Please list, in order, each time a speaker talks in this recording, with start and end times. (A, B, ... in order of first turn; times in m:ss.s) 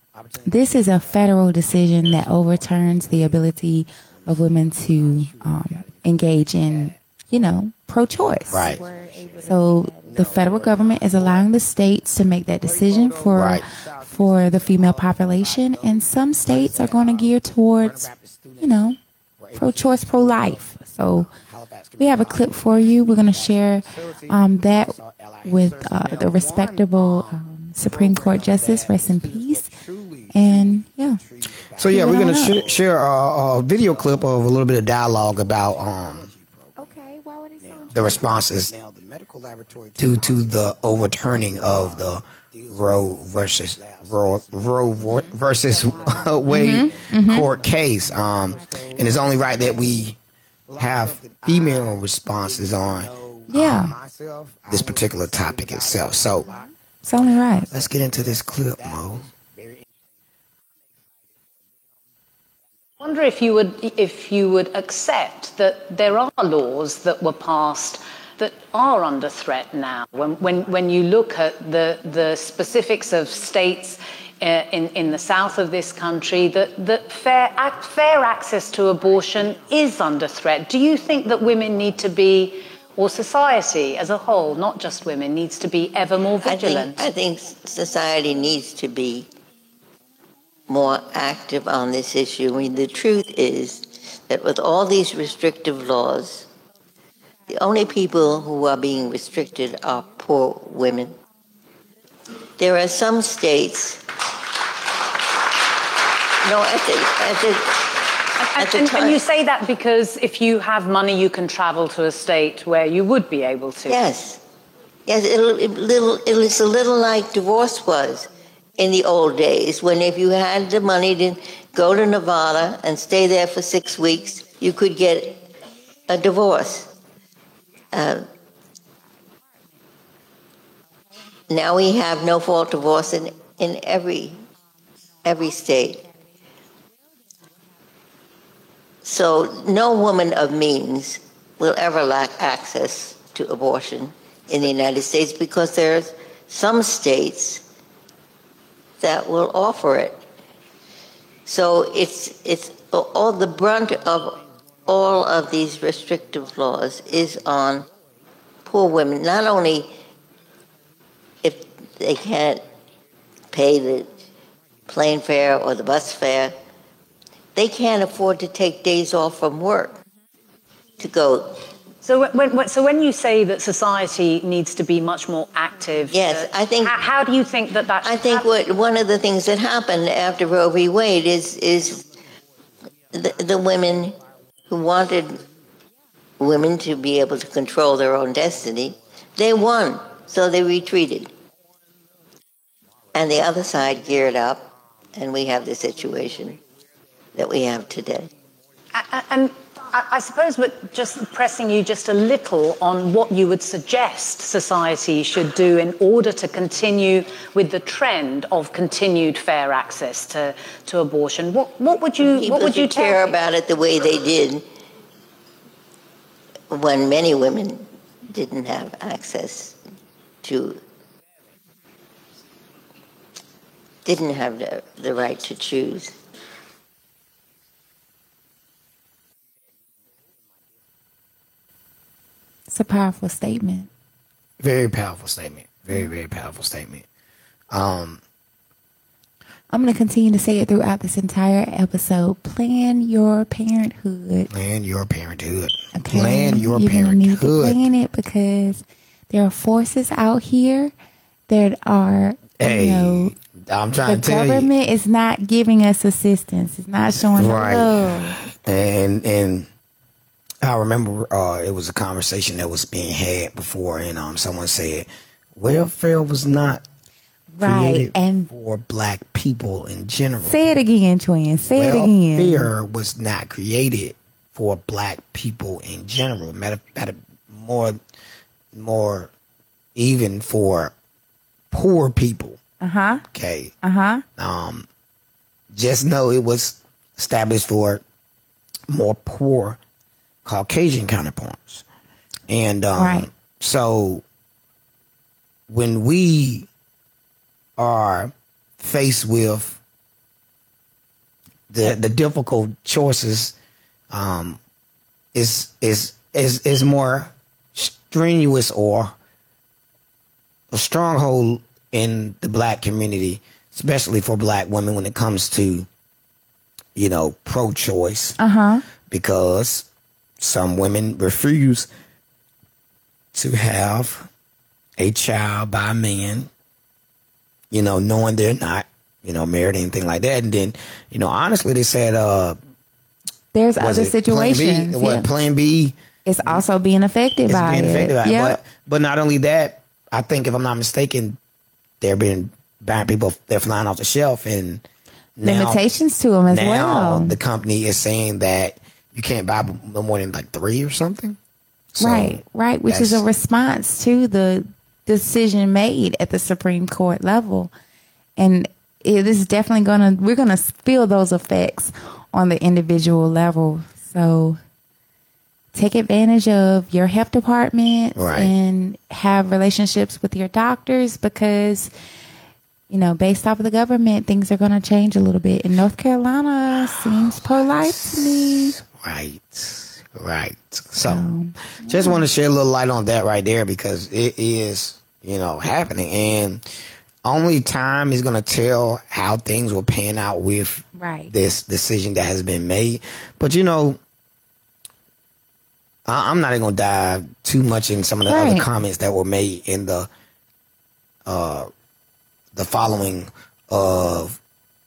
0:00.4-0:19.0 A
0:08.5-0:08.9 B
0:10.1-0:11.0 B
0:13.3-0:13.7 B
0:16.4-0:17.1 B
0:18.1-0:18.4 B
0:19.4-0:23.3 B
0:19.5-0:21.3 A
0:22.0-0:29.8 A
0:24.3-0:27.0 B
0:28.0-0:30.6 B
0:30.3-0:31.2 A
0:31.7-0:36.3 B
0:31.9-0:32.6 A
0:36.8-0:38.2 A
0:37.9-0:38.8 B
0:39.4-0:50.2 B
0:46.4-0:47.5 A
0:50.7-0:54.1 B
0:53.5-0:53.9 A
0:54.6-0:56.5 B
0:57.0-0:57.7 A
0:57.7-0:59.3 B
1:03.0-1:27.0 C
1:26.4-1:29.3 D
1:30.7-1:36.5 D
1:37.5-1:41.1 D
1:42.6-1:44.0 D
1:46.4-1:48.0 D
1:48.4-1:54.0 C
1:48.6-1:49.2 D
1:53.9-1:54.4 D
1:55.0-2:05.4 D
2:06.1-2:06.9 D
2:07.9-2:08.2 D
2:11.5-2:14.4 D
2:15.2-2:16.0 D
2:19.0-2:27.6 D
2:29.0-2:30.2 D
2:31.4-2:37.9 D
2:38.6-2:39.9 D
2:41.4-2:42.6 D
2:43.5-2:44.1 D
2:44.9-2:46.6 D
2:47.5-2:50.0 D
2:51.0-2:51.6 D
2:52.0-2:58.5 C
2:56.1-2:57.0 D
2:58.0-3:02.0 D
3:03.1-3:04.2 D
3:04.7-3:05.4 D
3:06.4-3:11.3 D
3:13.1-3:16.6 D
3:17.4-3:18.3 D
3:18.9-3:33.4 C
3:32.2-3:34.6 D
3:36.7-3:39.8 D
3:40.4-3:40.8 D
3:44.0-3:46.1 D
3:52.7-3:53.9 A
3:54.6-3:57.0 B
3:57.7-3:58.2 B
3:59.7-4:04.5 A
4:04.5-4:07.8 B
4:05.9-4:10.9 A
4:11.5-4:13.3 A
4:12.6-4:14.7 B
4:14.0-4:18.4 A
4:17.2-4:19.7 B
4:20.6-4:26.8 B
4:27.5-4:28.5 A
4:27.6-4:30.6 B
4:30.4-4:32.7 A
4:31.7-4:38.0 B
4:38.7-4:39.3 B
4:39.9-4:40.9 B
4:41.7-4:42.6 B
4:42.8-4:43.2 A
4:43.3-4:43.7 B
4:43.8-4:44.2 A
4:44.4-4:44.9 B
4:45.7-4:48.0 B
4:48.9-4:49.8 B
4:50.4-4:51.8 B
4:52.5-4:54.2 B
4:53.0-4:53.3 A
4:55.7-4:56.7 B
4:57.8-4:59.8 B
5:01.7-5:03.5 B
5:04.1-5:04.6 B
5:05.3-5:09.1 B
5:10.7-5:15.9 B
5:16.9-5:18.4 B
5:18.4-5:18.8 A
5:19.1-5:19.8 B
5:20.4-5:21.9 B
5:23.3-5:24.3 B
5:25.0-5:26.5 B
5:27.7-5:32.6 B
5:33.5-5:35.3 A
5:33.8-5:36.6 B
5:36.2-5:38.6 A
5:37.5-5:41.4 B
5:42.0-5:44.8 B
5:45.4-5:45.8 B
5:45.4-5:47.4 A
5:46.5-5:51.4 B
5:51.9-5:53.2 B
5:52.0-5:57.7 A
5:58.4-6:04.6 A
6:05.7-6:11.9 A
6:08.1-6:08.5 B
6:12.9-6:18.8 A
6:16.8-6:21.3 B
6:21.0-6:22.2 A
6:21.8-6:26.6 B
6:27.2-6:34.0 B
6:30.9-6:31.3 A
6:36.1-6:40.1 B
6:38.3-6:38.7 A
6:41.2-6:41.7 B
6:42.5-6:44.4 B